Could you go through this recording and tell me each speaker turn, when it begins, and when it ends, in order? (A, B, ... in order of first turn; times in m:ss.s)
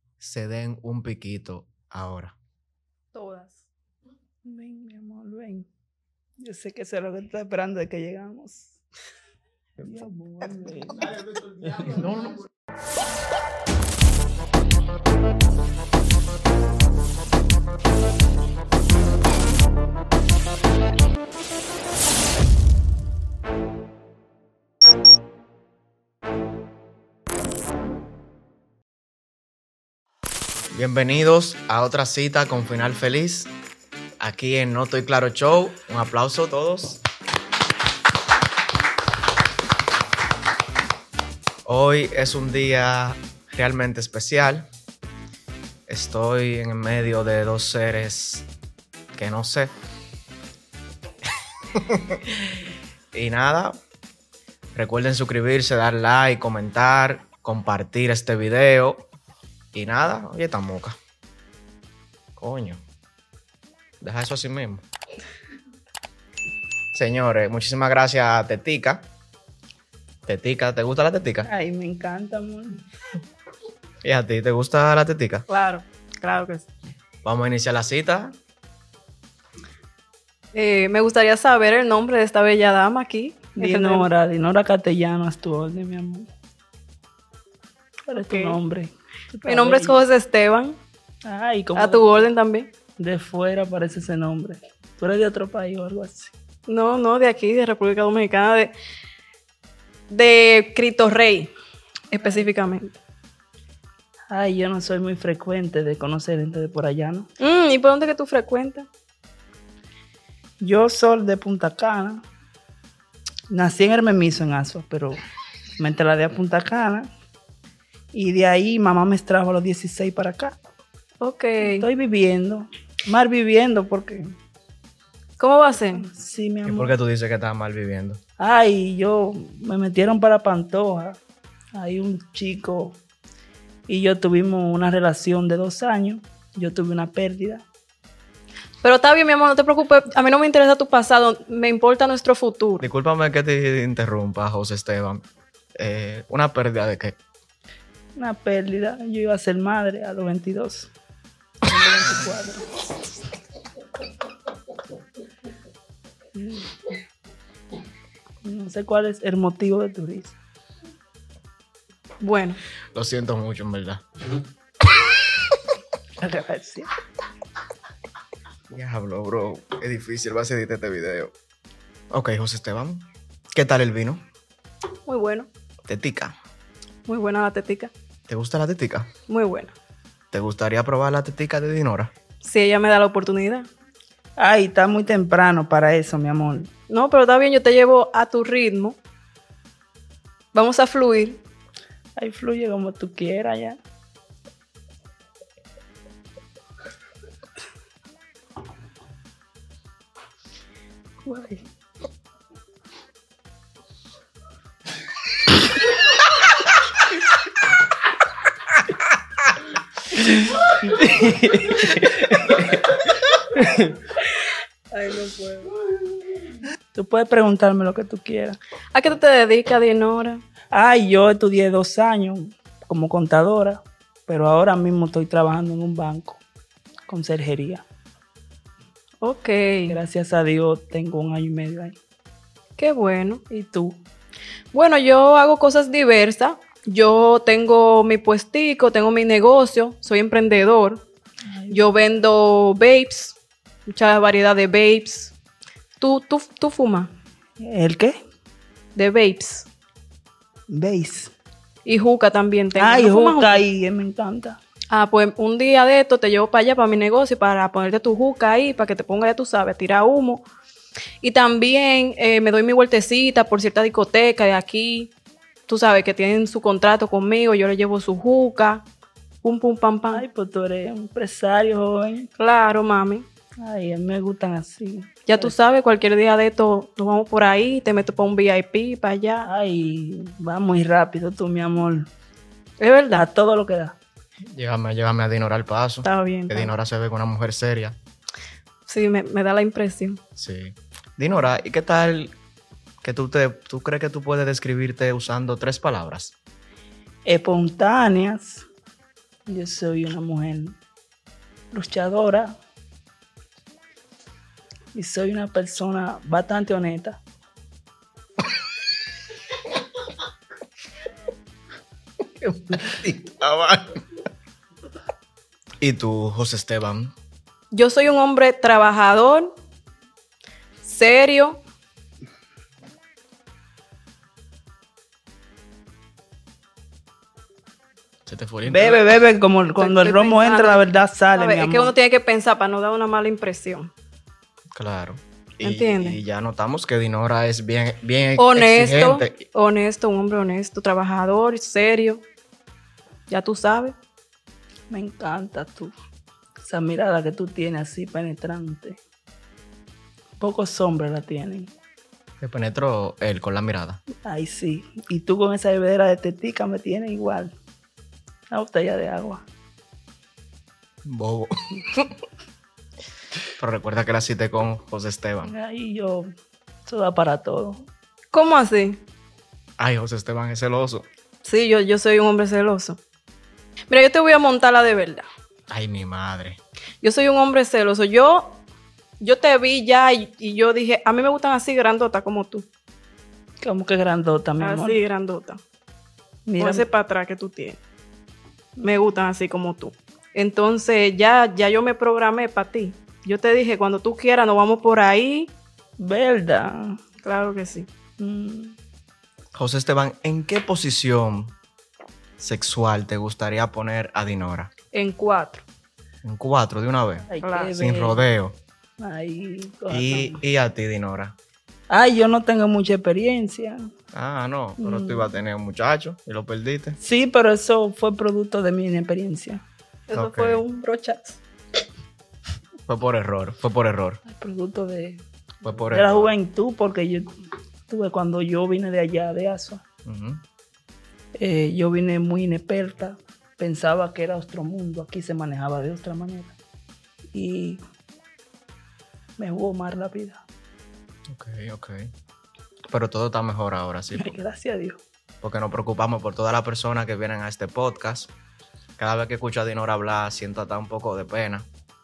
0:00.2-0:02.4 A
0:03.1-0:03.7 B
0:04.4-0:05.7 C
0:06.4-0:08.8 C
0:09.8-0:11.1 C
0:11.8-0:12.5 A
0:30.7-0:33.5 A
0:34.2-0:37.0 A
0:41.6-0:44.7 A
0:45.9-0:48.5 A
0:49.1-0:49.7 A
0:51.7-0:52.6 A
0:53.1-0:53.8 A
0:54.7-0:59.0 A
0:59.7-1:01.0 A
1:02.4-1:02.8 A
1:04.0-1:04.8 A
1:06.9-1:09.1 A
1:10.2-1:11.5 A
1:11.4-1:12.8 C
1:14.0-1:15.4 A
1:15.5-1:16.7 B
1:17.2-1:18.3 A
1:20.5-1:24.1 B
1:23.6-1:26.3 C
1:28.1-1:30.0 C
1:28.1-1:28.6 B
1:29.4-1:30.8 B
1:31.2-1:32.2 C
1:31.7-1:32.7 B
1:33.0-1:36.3 C
1:36.7-1:38.7 B
1:40.1-1:41.5 B
1:42.1-1:43.0 B
1:44.3-1:47.3 C
1:47.4-1:48.9 B
1:50.6-1:52.2 C
1:53.5-1:55.2 C
1:55.8-1:57.1 C
1:58.1-2:00.6 C
2:01.2-2:01.9 B
2:01.6-2:04.3 C
2:05.4-2:06.1 B
2:05.9-2:06.9 C
2:06.6-2:08.2 A
2:08.4-2:11.2 C
2:11.7-2:13.0 C
2:13.9-2:17.6 C
2:18.8-2:22.8 B
2:22.8-2:25.2 A
2:25.7-2:27.2 A
2:28.2-2:30.9 C
2:31.6-2:32.7 C
2:36.3-2:36.9 C
2:38.4-2:40.4 C
2:42.2-2:42.6 B
2:42.9-2:44.0 A
2:46.2-2:46.9 C
2:48.7-2:51.3 A
2:52.1-2:54.2 A
2:55.0-2:55.5 B
2:55.9-2:56.4 A
2:57.0-2:57.9 B
2:58.3-2:59.1 A
2:59.3-2:59.7 B
3:00.3-3:02.1 A
3:02.4-3:03.7 B
3:04.4-3:06.7 C
3:06.9-3:09.0 B
3:10.5-3:11.4 B
3:12.2-3:13.8 C
3:21.2-3:21.6 C
3:30.2-3:33.0 C
3:33.5-3:34.0 C
3:34.9-3:35.7 B
3:36.9-3:38.6 C
3:38.9-3:40.4 B
3:40.7-3:46.4 C
3:47.1-3:47.8 C
3:49.2-3:50.0 B
3:49.9-3:52.0 C
3:52.8-3:53.4 B
3:53.5-3:54.0 C
3:54.7-4:01.0 B
4:01.4-4:01.9 C
4:01.7-4:05.3 B
4:06.0-4:07.1 B
4:07.6-4:08.2 C
4:09.0-4:09.7 B
4:10.7-4:11.3 C
4:11.8-4:13.6 B
4:12.8-4:14.6 C
4:14.9-4:20.4 B
4:21.2-4:25.1 B
4:25.7-4:28.8 B
4:29.4-4:30.2 B
4:30.1-4:32.3 C
4:32.4-4:33.3 B
4:33.6-4:35.5 C
4:35.2-4:39.5 B
4:39.4-4:42.1 C
4:42.8-4:43.3 B
4:43.1-4:44.0 C
4:44.5-4:48.0 A
4:46.0-4:46.7 B
4:48.9-4:50.2 B
4:50.4-4:52.3 A
4:53.0-4:56.3 A
4:57.2-4:58.6 C
4:59.5-5:00.8 C
5:01.7-5:02.6 C
5:04.9-5:07.2 C
5:12.4-5:14.0 A
5:15.8-5:17.1 A
5:17.7-5:19.5 B
5:20.8-5:21.6 B
5:28.2-5:29.0 A
5:28.6-5:31.9 C
5:29.8-5:33.9 B
5:34.7-5:39.4 A
5:35.6-5:36.2 B
5:38.4-5:42.2 B
5:43.3-5:43.9 B
5:44.9-5:45.9 C
5:46.6-5:49.0 C
5:50.4-5:51.7 C
5:52.4-5:54.0 A
5:54.2-5:57.5 C
5:58.5-5:59.4 C
6:01.0-6:02.1 A
6:03.6-6:05.5 A
6:05.4-6:06.3 C
6:06.8-6:07.8 C
6:08.3-6:09.0 B
6:09.8-6:11.0 A
6:11.4-6:13.0 B
6:13.9-6:15.3 B
6:15.7-6:16.6 A
6:17.0-6:18.6 B
6:19.2-6:22.6 B
6:23.6-6:25.0 C
6:24.6-6:25.6 B
6:26.5-6:26.8 C
6:26.6-6:27.8 B
6:28.8-6:35.5 B
6:36.0-6:37.0 C
6:37.2-6:37.9 B
6:38.2-6:38.8 C
6:39.5-6:41.6 A
6:42.4-6:44.7 A
6:44.9-6:45.6 B
6:46.2-6:48.6 A
6:47.3-6:48.2 C
6:47.4-6:47.7 B
6:49.0-6:50.4 C
6:49.9-6:51.3 A
6:51.9-6:53.9 C
6:54.1-6:57.0 A
6:54.8-6:55.3 C
6:57.0-6:59.6 C
7:00.1-7:01.4 B
7:00.1-7:00.6 A
7:02.9-7:04.2 A
7:04.2-7:05.2 C
7:05.6-7:06.3 A
7:05.9-7:07.3 C
7:07.9-7:09.8 C
7:10.0-7:10.4 A
7:11.4-7:16.6 C
7:17.3-7:17.8 C
7:19.4-7:20.4 C
7:21.3-7:22.1 A
7:22.9-7:24.4 A
7:24.1-7:25.0 C
7:25.4-7:28.3 A
7:29.0-7:31.7 A